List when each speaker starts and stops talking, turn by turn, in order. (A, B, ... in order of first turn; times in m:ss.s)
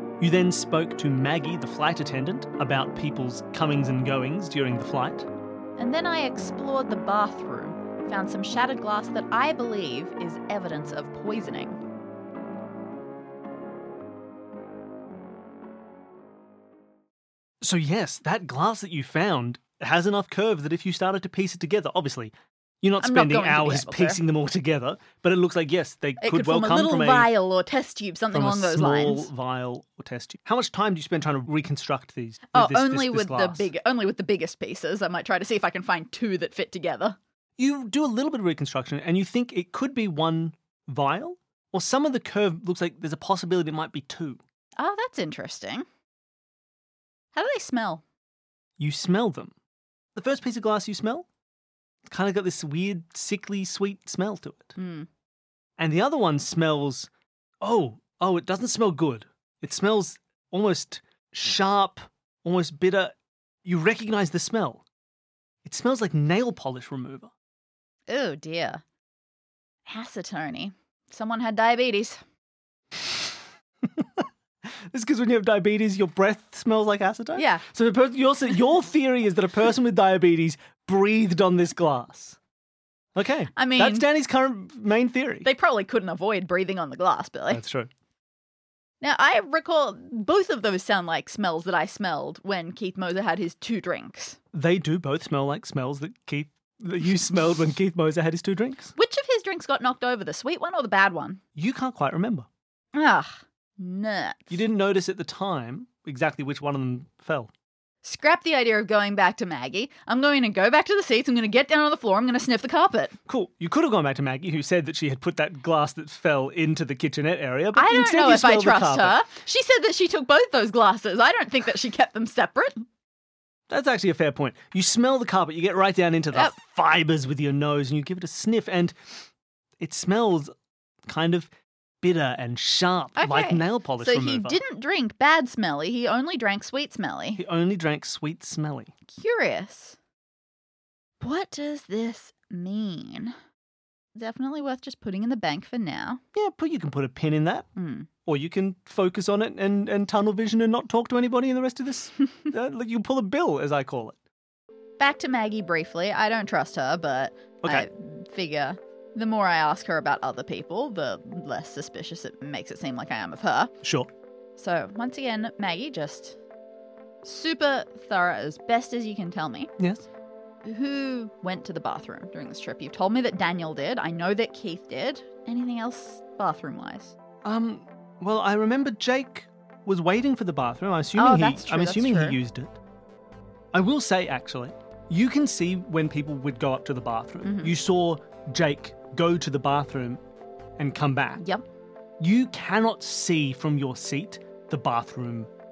0:00.2-0:05.3 A
0:05.8-0:11.8 B
0:17.6-0:27.3 A
0:23.0-0:24.2 B
0:26.2-0:29.3 B
0:28.3-0:33.7 A
0:32.5-0:37.2 B
0:37.6-0:44.4 A
0:44.8-0:45.8 B
0:47.3-0:48.0 B
0:48.8-0:49.5 A
0:50.1-0:51.3 A
0:52.0-0:54.7 A
0:54.8-0:55.1 B
0:55.8-0:57.1 A
0:57.6-1:03.1 A
1:03.6-1:04.8 A
1:05.6-1:07.3 A
1:08.1-1:08.8 B
1:09.8-1:12.2 B
1:13.8-1:22.4 A
1:17.4-1:17.6 B
1:23.1-1:25.5 A
1:23.5-1:24.0 B
1:25.4-1:27.6 B
1:27.5-1:27.9 A
1:29.0-1:34.4 B
1:34.5-1:38.9 A
1:39.0-1:41.4 B
1:41.6-1:42.5 A
1:42.9-1:44.6 B
1:44.5-1:47.5 A
1:48.0-1:53.2 B
1:53.3-1:59.2 A
1:57.7-2:02.8 B
2:03.7-2:09.0 A
2:09.8-2:10.5 A
2:11.1-2:11.5 A
2:12.0-2:14.6 A
2:13.2-2:17.4 B
2:17.4-2:18.9 A
2:19.1-2:20.0 B
2:21.2-2:23.3 B
2:24.1-2:26.2 B
2:26.3-2:27.7 A
2:27.8-2:28.1 B
2:28.2-2:34.2 A
2:35.0-2:43.7 B
2:37.6-2:37.9 A
2:43.8-2:44.1 A
2:44.6-2:46.4 B
2:47.2-2:49.7 B
2:49.8-2:50.0 A
2:50.6-2:57.1 B
2:57.4-3:02.8 A
3:01.1-3:02.4 B
3:03.7-3:10.2 A
3:07.4-3:07.7 B
3:10.8-3:11.4 A
3:11.4-3:11.6 B
3:12.2-3:15.5 A